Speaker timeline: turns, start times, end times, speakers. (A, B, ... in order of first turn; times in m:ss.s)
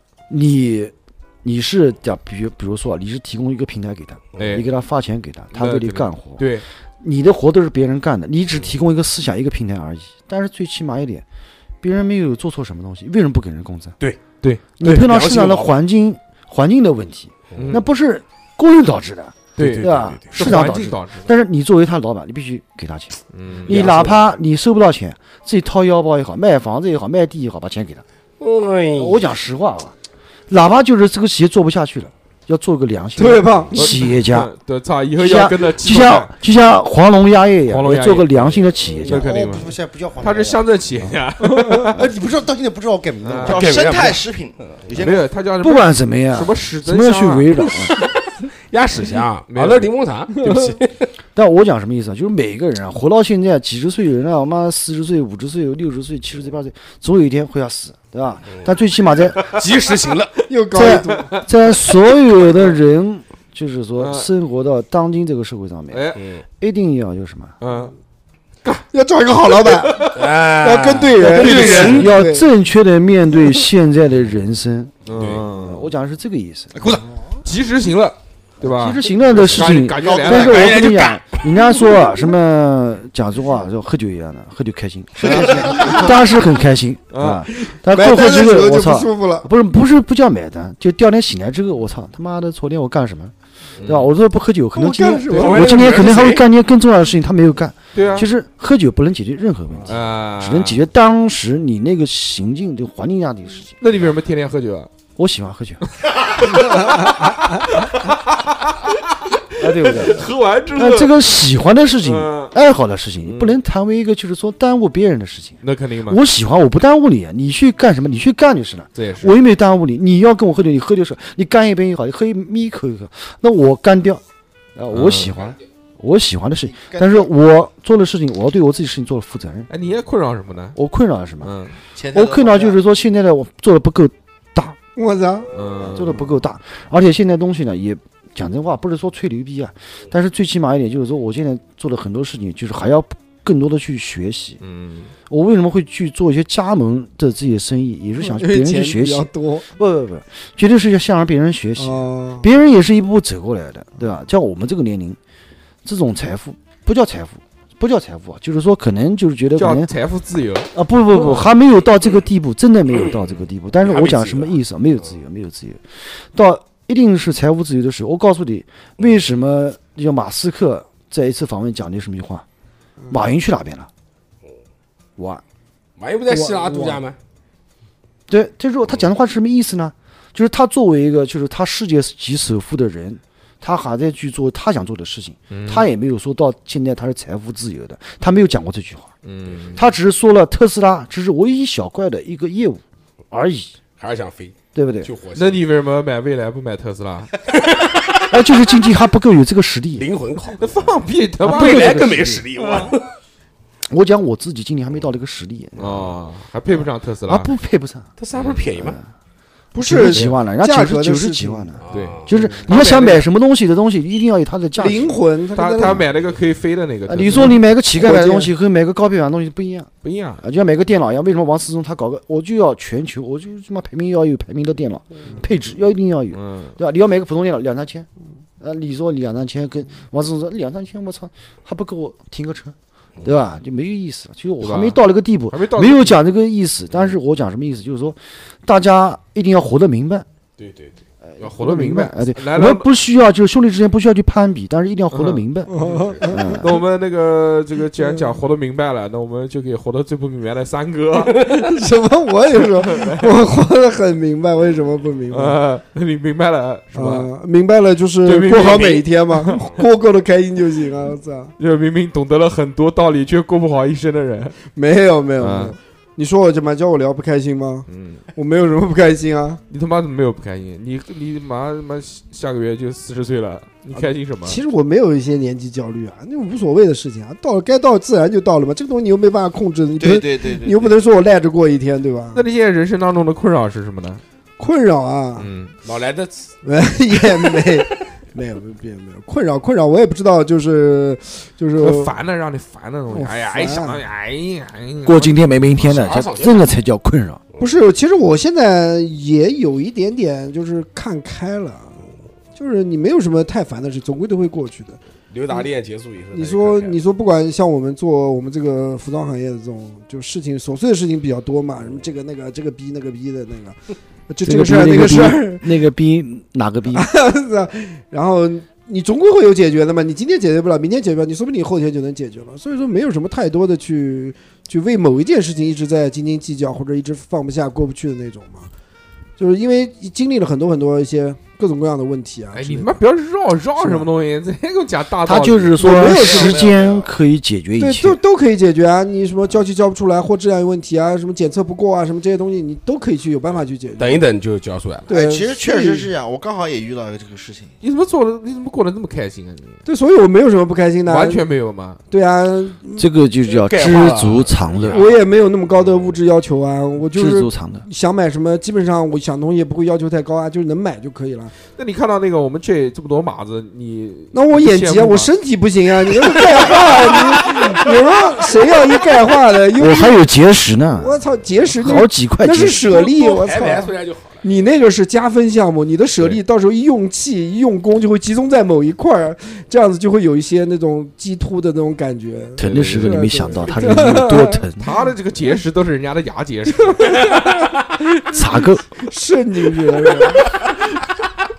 0:00.3-0:11.2 A
0:04.4-0:04.6 B
0:05.5-0:06.6 B
0:11.8-0:13.9 A
0:14.4-0:14.8 B
0:14.8-0:28.0 A
0:14.8-0:15.7 C
0:17.6-0:17.8 B
0:19.6-0:21.3 B
0:19.6-0:20.4 C
0:23.3-0:23.9 B
0:23.6-0:24.2 C
0:28.4-0:29.3 C
0:29.0-0:29.9 A
0:30.5-0:34.5 A
0:33.2-0:33.9 D
0:33.7-0:36.3 B
0:35.2-0:39.3 A
0:37.7-0:42.1 B
0:39.0-0:40.6 E
0:41.6-0:41.8 D
0:41.9-0:43.8 E
0:43.2-0:43.6 B
0:43.4-0:45.3 F
0:43.5-0:44.8 C
0:45.0-0:47.5 B
0:45.6-0:47.9 A
0:47.7-0:51.1 C
0:49.5-0:49.9 B
0:51.3-0:59.5 A
0:59.4-1:00.4 C
1:00.5-1:01.4 D
1:00.7-1:06.1 A
1:01.1-1:01.4 B
1:04.0-1:04.3 B
1:05.9-1:06.2 B
1:06.2-1:06.4 C
1:06.6-1:07.5 A
1:07.6-1:07.9 B
1:08.9-1:12.5 D
1:09.9-1:10.2 B
1:10.1-1:12.1 C
1:11.2-1:14.9 A
1:15.0-1:15.9 B
1:15.1-1:15.4 C
1:15.5-1:16.9 A
1:17.0-1:17.4 D
1:17.4-1:20.8 B
1:18.6-1:44.0 A
1:20.0-1:21.0 F
1:20.5-1:21.2 C
1:25.2-1:26.1 F
1:27.1-1:27.4 B
1:27.9-1:29.5 D
1:33.8-1:34.1 B
1:34.8-1:35.8 D
1:35.3-1:36.4 C
1:35.3-1:35.6 B
1:37.9-1:38.3 B
1:39.9-1:40.8 B
1:43.8-1:44.9 B
1:45.2-1:45.8 A
1:46.0-1:51.2 B
1:49.6-2:04.2 A
1:52.0-1:52.5 B
1:53.2-1:53.6 B
1:55.6-1:56.2 B
1:58.9-1:59.4 B
2:04.8-2:09.7 A
2:04.9-2:05.3 B
2:06.7-2:07.3 F
2:09.7-2:10.8 B
2:10.7-2:11.5 A
2:11.4-2:11.8 B
2:12.0-2:12.8 F
2:12.1-2:14.8 A
2:15.0-2:15.5 D
2:15.5-2:16.2 B
2:15.9-2:24.6 A
2:24.6-2:25.1 B
2:25.3-2:35.2 A
2:28.2-2:29.7 D
2:31.8-2:32.5 D
2:35.8-2:39.9 A
2:39.6-2:40.7 B
2:40.7-2:45.8 A
2:43.8-2:44.6 C
2:46.3-2:52.4 A
2:53.1-2:53.9 A
2:55.2-2:55.4 A
2:56.0-2:57.2 C
2:56.3-2:57.0 D
2:58.3-3:09.1 A
3:05.5-3:05.9 B
3:09.2-3:09.9 B
3:09.7-3:13.7 A
3:14.0-3:15.6 C
3:14.7-3:15.1 A
3:15.3-3:17.3 B
3:17.5-3:18.4 C
3:18.3-3:20.1 A
3:20.0-3:20.7 C
3:20.6-3:22.9 B
3:21.4-3:22.5 A
3:21.4-3:23.1 C
3:23.9-3:26.1 A
3:25.8-3:27.5 B
3:26.7-3:28.1 A
3:28.2-3:29.0 C
3:28.3-3:28.6 B
3:28.7-3:29.1 A
3:29.7-3:31.7 D
3:29.8-3:35.2 A
3:31.8-3:32.5 C
3:31.9-3:33.2 B
3:32.3-3:32.6 D
3:34.8-3:36.0 D
3:35.5-3:37.6 B
3:37.1-3:39.9 A
3:37.3-3:38.5 D
3:40.0-3:40.4 B
3:40.4-3:48.1 A
3:46.3-3:46.8 B
3:48.6-4:00.2 A
3:54.6-3:56.2 B
4:00.6-4:01.0 C
4:01.3-4:05.7 A
4:01.4-4:02.9 B
4:05.1-4:06.0 B
4:05.7-4:06.6 D
4:05.8-4:06.3 C
4:06.3-4:06.8 A
4:06.6-4:11.4 B
4:08.0-4:08.3 D
4:11.3-4:11.6 C
4:11.4-4:15.6 D
4:12.8-4:13.3 B
4:15.3-4:17.3 B
4:16.9-4:21.5 D
4:18.2-4:19.6 B
4:18.7-4:19.0 C
4:21.6-4:24.6 B
4:24.7-4:29.6 D
4:25.4-4:25.8 B
4:27.9-4:28.2 B
4:29.7-4:34.6 B
4:33.9-4:42.4 D
4:40.0-4:41.0 F
4:42.3-4:44.2 B
4:44.6-4:45.5 D
4:45.4-4:45.7 B
4:45.8-4:46.5 C
4:46.6-4:52.1 D
4:51.8-4:55.3 B
4:53.1-4:54.0 D
4:55.0-4:57.4 A
4:55.8-4:56.6 C
4:57.6-5:02.0 D
5:02.5-5:05.7 D
5:05.3-5:07.0 C
5:06.3-5:15.8 D
5:14.4-5:17.1 A
5:16.9-5:28.7 D
5:29.4-5:33.0 D
5:32.5-5:36.6 B
5:33.8-5:34.0 D
5:35.2-5:38.2 A
5:35.8-5:36.7 D
5:36.4-5:37.0 C
5:37.8-5:44.2 D
5:44.0-5:45.1 C
5:45.1-5:46.1 D
5:45.1-5:47.7 F
5:47.8-5:49.8 B
5:49.8-5:51.4 D
5:51.0-5:52.0 B
5:52.1-5:53.0 D
5:53.0-5:55.1 A
5:53.4-5:55.1 C
5:54.9-6:01.5 D
5:57.1-5:57.8 A
6:01.7-6:05.3 B
6:04.3-6:10.2 D
6:09.8-6:11.2 A
6:11.0-6:24.6 D
6:11.8-6:12.9 A
6:12.7-6:14.7 C
6:22.6-6:24.9 A
6:22.6-6:23.3 B
6:24.8-6:27.4 B
6:26.9-6:27.4 D
6:27.3-6:27.8 C
6:28.3-6:28.8 A
6:28.9-6:30.6 D
6:30.1-6:30.6 C